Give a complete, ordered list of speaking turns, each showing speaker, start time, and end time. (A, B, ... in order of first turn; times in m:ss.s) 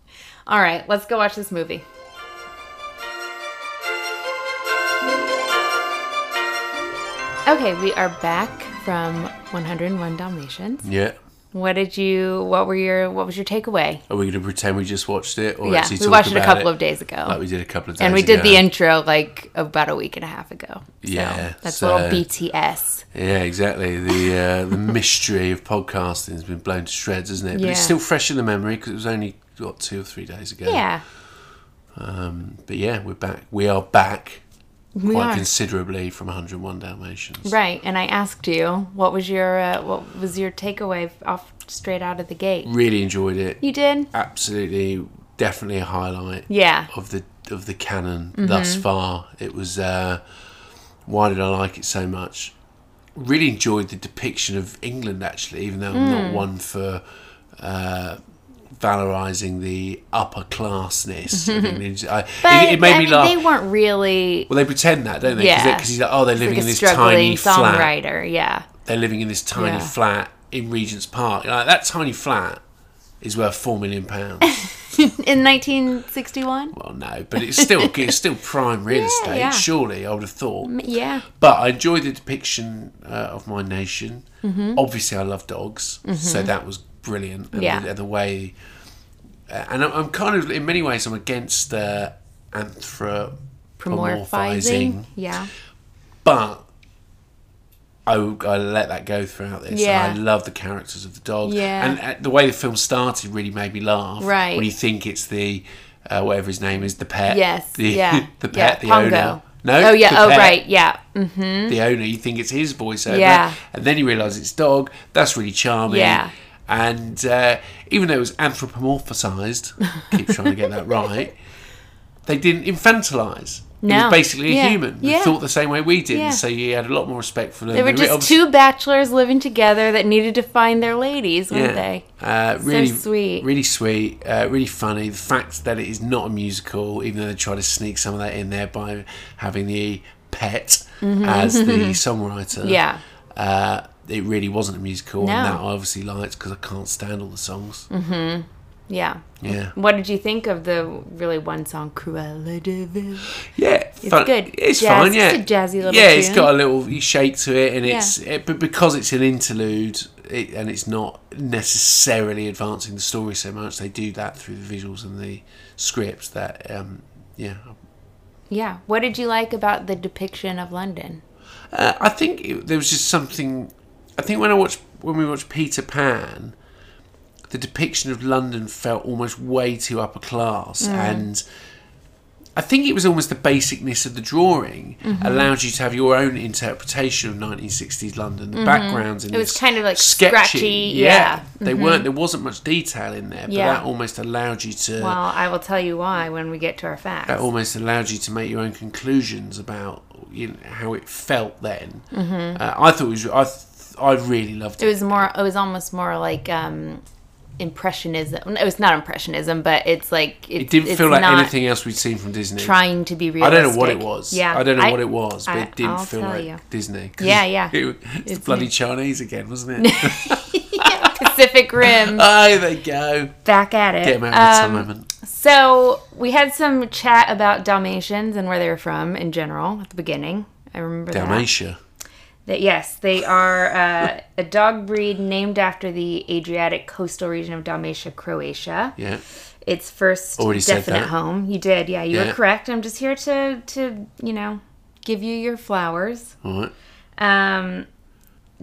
0:00.5-0:01.8 A
0:07.4-0:10.8 A
0:10.8-0:11.2 B
0:11.5-0:14.0 A
0:14.1-0:16.7 B
0:15.6-0:17.4 A
0:17.2-0:18.6 B
0:18.0-0:23.0 A
0:21.0-0:22.2 B
0:23.1-0:30.8 B
0:27.5-0:28.0 A
0:30.6-0:31.0 A
0:31.9-0:34.4 B
0:34.9-0:35.5 A
0:35.0-0:37.5 B
0:37.4-0:42.7 A
0:42.6-0:43.6 B
0:43.6-0:44.1 A
0:44.1-0:50.2 B
0:46.5-0:46.9 A
0:48.4-0:48.8 A
0:51.0-0:52.5 B
0:53.1-0:57.0 B
0:55.9-0:56.5 A
0:57.6-0:58.2 B
0:58.7-1:03.4 B
1:01.3-1:01.8 A
1:02.4-1:04.5 A
1:04.5-1:07.9 B
1:05.3-1:08.7 A
1:08.8-1:12.6 B
1:09.6-1:09.9 A
1:13.2-1:14.7 B
1:14.4-1:16.7 A
1:16.7-1:20.7 B
1:17.4-1:18.1 A
1:18.9-1:19.6 A
1:20.6-1:21.2 A
1:21.2-1:28.5 B
1:24.4-1:24.8 A
1:26.0-1:26.5 A
1:27.5-1:27.9 A
1:29.5-1:33.4 B
1:33.8-1:35.5 A
1:33.9-1:35.1 B
1:36.2-1:36.6 B
1:38.0-1:50.6 B
1:39.7-1:40.2 A
1:41.4-1:42.0 A
1:44.2-1:44.7 A
1:47.3-1:51.8 A
1:51.7-2:01.4 B
1:53.1-1:53.6 A
1:55.9-1:56.3 A
1:59.8-2:01.1 A
2:02.2-2:08.4 B
2:03.8-2:05.4 A
2:06.1-2:06.4 A
2:07.7-2:12.0 A
2:11.5-2:22.8 B
2:12.6-2:13.5 A
2:21.0-2:22.0 A
2:22.6-2:23.0 A
2:23.3-2:27.9 B
2:25.2-2:25.6 A
2:27.9-2:33.4 A
2:29.4-2:29.7 B
2:33.3-2:47.8 B
2:34.0-2:36.5 A
2:37.8-2:38.1 A
2:48.5-2:51.2 A
2:51.7-2:56.6 B
2:57.5-3:01.4 B
3:00.8-3:01.2 A
3:02.6-3:15.2 B
3:05.0-3:05.5 A
3:08.5-3:12.0 A
3:13.5-3:13.8 A
3:15.0-3:17.5 A
3:17.3-3:25.3 B
3:22.1-3:22.6 A
3:24.8-3:27.0 A
3:27.6-3:31.5 A
3:30.6-3:32.8 B
3:32.6-3:36.6 A
3:33.4-3:43.3 B
3:37.2-3:38.7 A
3:39.8-3:42.3 A
3:43.4-3:51.5 A
3:44.0-3:45.1 B
3:51.1-3:51.8 B
3:52.4-3:59.0 A
3:59.0-3:59.2 B
3:59.6-4:06.4 A
4:00.4-4:01.1 B
4:02.1-4:02.4 B
4:06.4-4:06.7 B
4:07.2-4:07.9 A